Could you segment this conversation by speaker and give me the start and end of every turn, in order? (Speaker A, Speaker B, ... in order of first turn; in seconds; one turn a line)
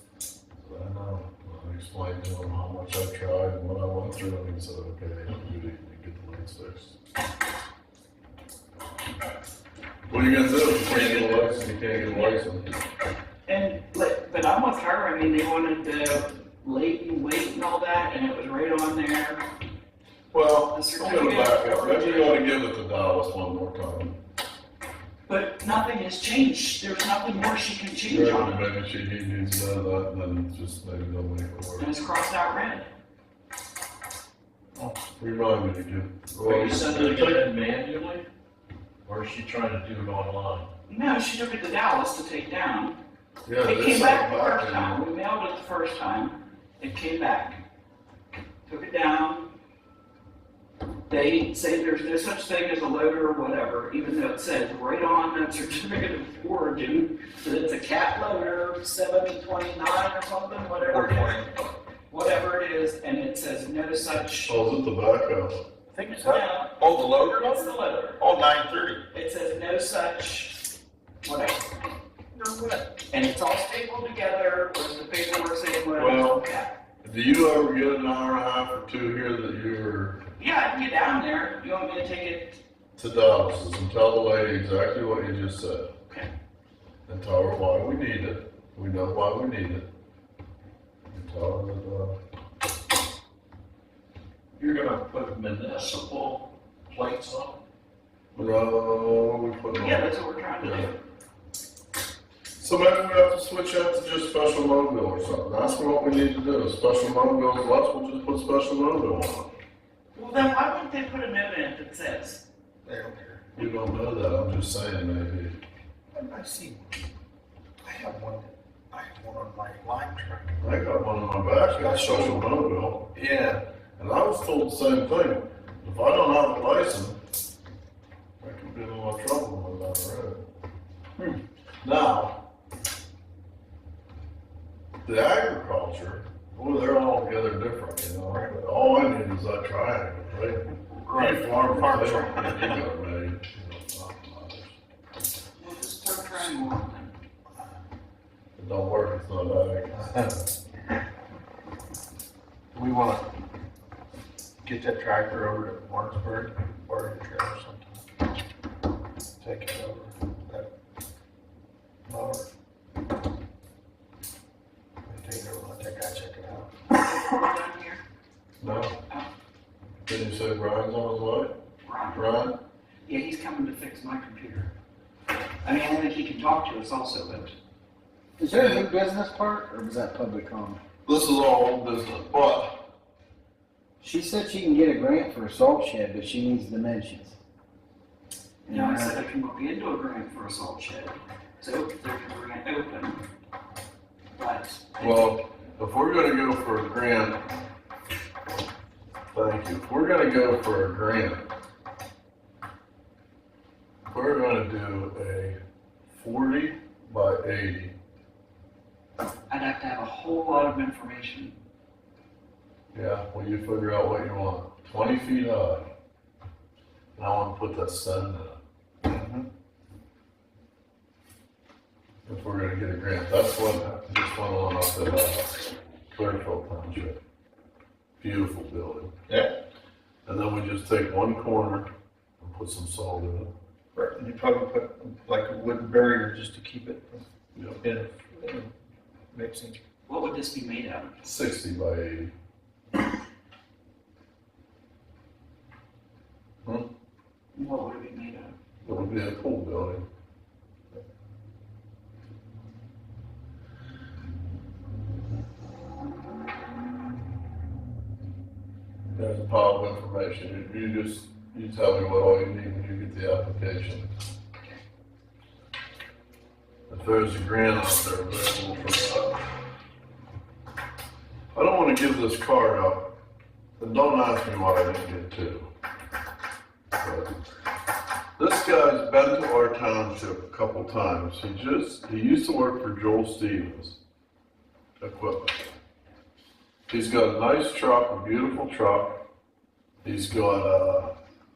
Speaker A: 0.6-7.0
Speaker A: 10.1-12.8
Speaker B: 11.9-12.4
Speaker B: 13.5-19.4
Speaker A: 20.3-24.2
Speaker B: 20.7-22.4
Speaker B: 25.3-28.6
Speaker A: 28.1-31.9
Speaker B: 31.8-32.9
Speaker A: 35.2-37.4
Speaker C: 36.4-38.3
Speaker C: 39.0-40.7
Speaker B: 40.9-43.0
Speaker A: 43.5-45.1
Speaker B: 43.6-47.6
Speaker B: 48.7-49.5
Speaker B: 51.1-61.5
Speaker D: 60.9-61.6
Speaker B: 62.1-64.6
Speaker A: 64.5-65.6
Speaker D: 65.9-69.0
Speaker B: 66.0-68.2
Speaker B: 69.1-70.6
Speaker B: 71.2-71.7
Speaker B: 72.9-76.7
Speaker A: 76.0-76.4
Speaker A: 77.0-80.2
Speaker B: 80.4-82.6
Speaker A: 83.0-85.9
Speaker A: 87.1-89.9
Speaker A: 91.1-92.2
Speaker C: 94.6-97.6
Speaker A: 98.3-100.9
Speaker B: 99.7-101.0
Speaker A: 102.6-109.5
Speaker B: 110.1-112.4
Speaker D: 112.8-113.4
Speaker A: 113.5-115.6
Speaker D: 116.1-117.0
Speaker D: 117.8-120.6
Speaker A: 120.6-123.1
Speaker D: 121.7-122.4
Speaker D: 123.1-123.6
Speaker A: 124.0-127.2
Speaker A: 128.4-130.4
Speaker A: 131.8-132.4
Speaker A: 135.0-144.7
Speaker D: 138.3-138.5
Speaker D: 141.0-142.8
Speaker B: 145.6-147.1
Speaker A: 148.6-150.2
Speaker D: 152.7-153.2
Speaker D: 154.6-158.0
Speaker D: 159.4-160.7
Speaker D: 162.1-162.5
Speaker D: 165.1-166.7
Speaker B: 166.9-168.0
Speaker A: 168.6-168.9
Speaker B: 168.6-169.3
Speaker A: 170.1-171.5
Speaker B: 171.8-172.2
Speaker A: 172.1-172.5
Speaker B: 173.1-174.7
Speaker B: 175.6-177.5
Speaker E: 178.4-180.8
Speaker A: 178.5-178.8
Speaker A: 181.1-182.8
Speaker E: 184.0-187.4
Speaker B: 188.7-193.2
Speaker E: 188.7-189.2
Speaker B: 194.3-195.3
Speaker A: 195.0-197.4
Speaker A: 199.3-201.4
Speaker A: 204.1-205.6
Speaker A: 206.1-207.9
Speaker B: 209.5-211.6
Speaker A: 212.9-215.9
Speaker A: 217.2-218.6
Speaker D: 219.0-219.4
Speaker A: 222.2-227.2
Speaker A: 228.2-229.1
Speaker D: 229.3-229.5
Speaker A: 230.2-233.5
Speaker D: 233.9-237.2
Speaker A: 237.5-237.8
Speaker D: 237.8-238.7
Speaker D: 239.3-239.8
Speaker B: 240.1-241.1
Speaker A: 241.2-242.3
Speaker B: 247.5-248.5
Speaker A: 248.8-250.0
Speaker A: 259.1-264.1
Speaker A: 266.9-269.4
Speaker A: 271.5-273.1
Speaker A: 273.8-275.7
Speaker A: 277.0-277.3
Speaker A: 278.4-284.0
Speaker A: 285.0-285.7
Speaker A: 286.9-289.2
Speaker A: 290.0-291.1